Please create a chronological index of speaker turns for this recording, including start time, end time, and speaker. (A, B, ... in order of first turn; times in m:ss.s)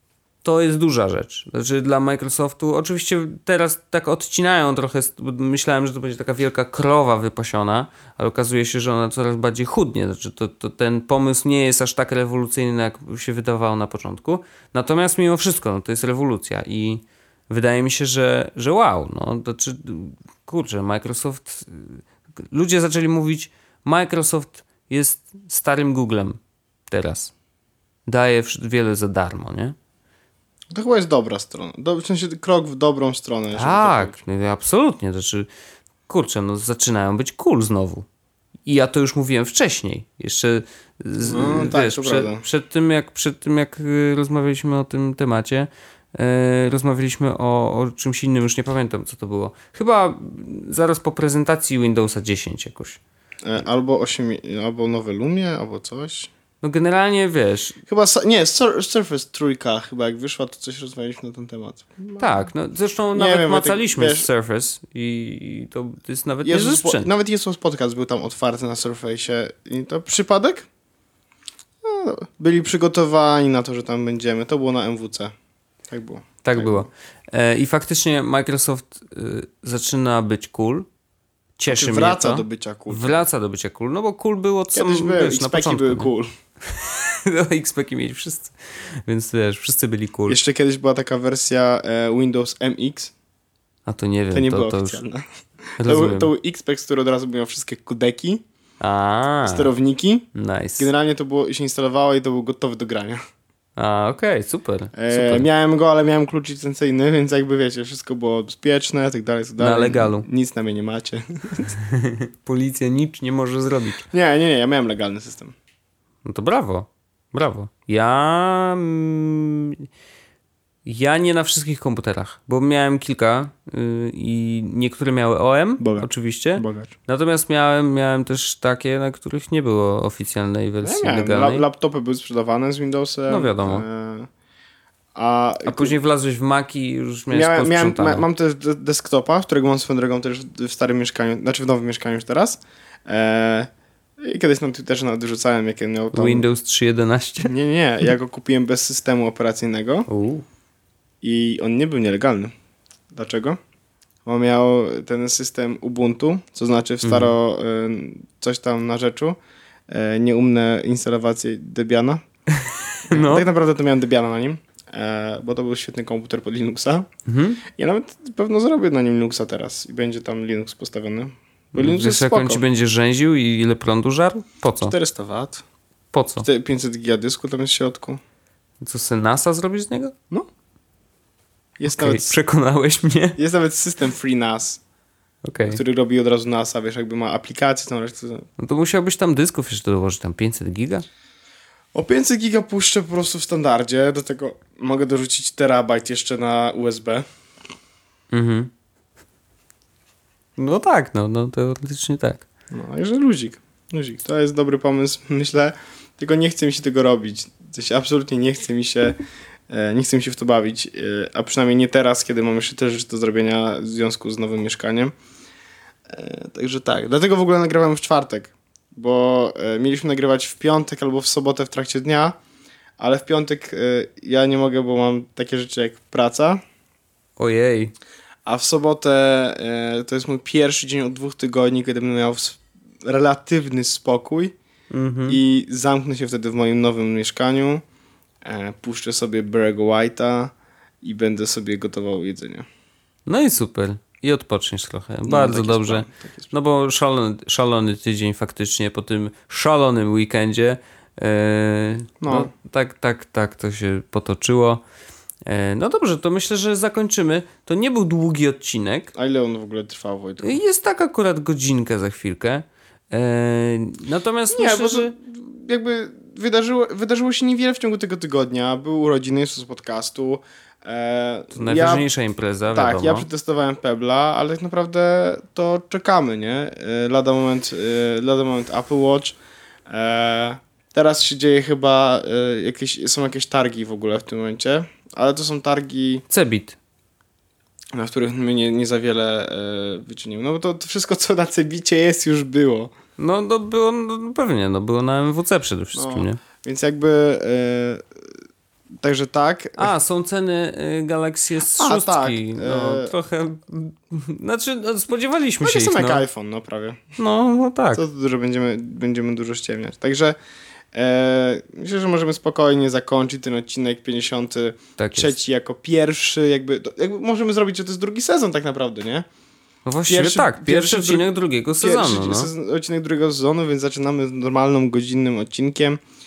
0:00.4-0:26.4 A
0:26.9-0:27.3 A
0:28.1-0:29.8 A
0:30.7-0:34.2 B
0:33.6-0:35.5 A
0:36.1-0:38.1 A
0:38.7-0:53.0 A
0:41.3-0:42.4 B
0:53.4-0:56.3 B
0:56.6-0:57.8 A
0:57.9-1:02.3 B
1:02.2-1:07.1 A
1:03.2-1:04.3 B
1:06.4-1:10.7 B
1:11.8-1:15.4 B
1:15.9-1:16.9 B
1:16.4-1:20.9 A
1:21.6-1:26.1 A
1:21.7-1:23.2 B
1:24.7-1:26.3 B
1:26.6-1:30.4 A
1:30.3-1:33.1 B
1:33.9-1:35.0 A
1:34.3-1:35.2 B
1:35.8-1:38.4 B
1:35.8-1:36.3 A
1:38.8-1:39.7 A
1:39.4-1:43.2 B
1:40.4-1:40.9 A
1:43.8-1:45.5 A
1:45.0-1:51.7 B
1:49.6-1:50.3 A
1:51.7-1:54.1 A
1:54.1-1:55.6 B
1:56.2-1:59.9 A
2:00.8-2:11.6 A
2:05.8-2:06.9 B
2:10.8-2:14.3 B
2:13.3-2:13.8 A
2:15.2-2:16.0 B
2:15.6-2:18.3 A
2:17.3-2:26.4 B
2:26.1-2:27.5 A
2:27.4-2:30.1 B
2:30.1-2:30.5 A
2:31.2-2:32.5 B
2:33.1-2:33.6 B
2:34.2-2:39.4 B
2:37.0-2:37.3 A
2:39.9-2:42.2 B
2:42.5-2:43.5 A
2:43.1-2:47.1 B
2:47.3-2:47.6 A
2:47.7-2:52.6 B
2:51.8-2:55.0 A
2:54.8-2:55.6 B
2:56.1-2:56.5 A
2:56.4-2:58.2 B
2:58.8-3:00.2 A
3:01.8-3:02.4 B
3:01.9-3:03.4 A
3:03.4-3:04.8 B
3:05.4-3:05.8 A
3:05.7-3:08.5 B
3:08.6-3:11.0 A
3:11.9-3:17.2 B
3:18.3-3:18.7 A
3:20.6-3:22.5 A
3:22.7-3:29.2 B
3:29.7-3:35.1 B
3:36.1-3:42.4 B
3:43.0-3:46.6 B
3:47.4-3:47.9 A
3:48.5-3:54.6 B
3:54.9-3:55.4 A
3:55.3-3:57.8 B
3:58.4-4:02.7 B
4:03.3-4:14.8 A
4:05.3-4:06.5 B
4:12.2-4:12.5 B
4:15.5-4:19.1 A
4:19.2-4:20.6 B
4:20.4-4:25.1 A
4:24.5-4:32.1 B
4:31.5-4:33.3 A
4:32.7-4:46.2 B
4:46.3-4:46.8 A
4:47.9-4:52.9 B
4:53.2-4:56.4 A
4:56.0-4:58.1 B
4:59.0-4:59.9 B
4:59.8-5:06.3 A
5:01.8-5:03.1 B
5:05.6-5:07.0 B
5:07.2-5:08.0 A
5:07.9-5:10.4 B
5:10.9-5:19.3 B
5:15.0-5:15.4 A
5:19.9-5:22.5 A
5:20.1-5:21.3 B
5:21.8-5:26.0 B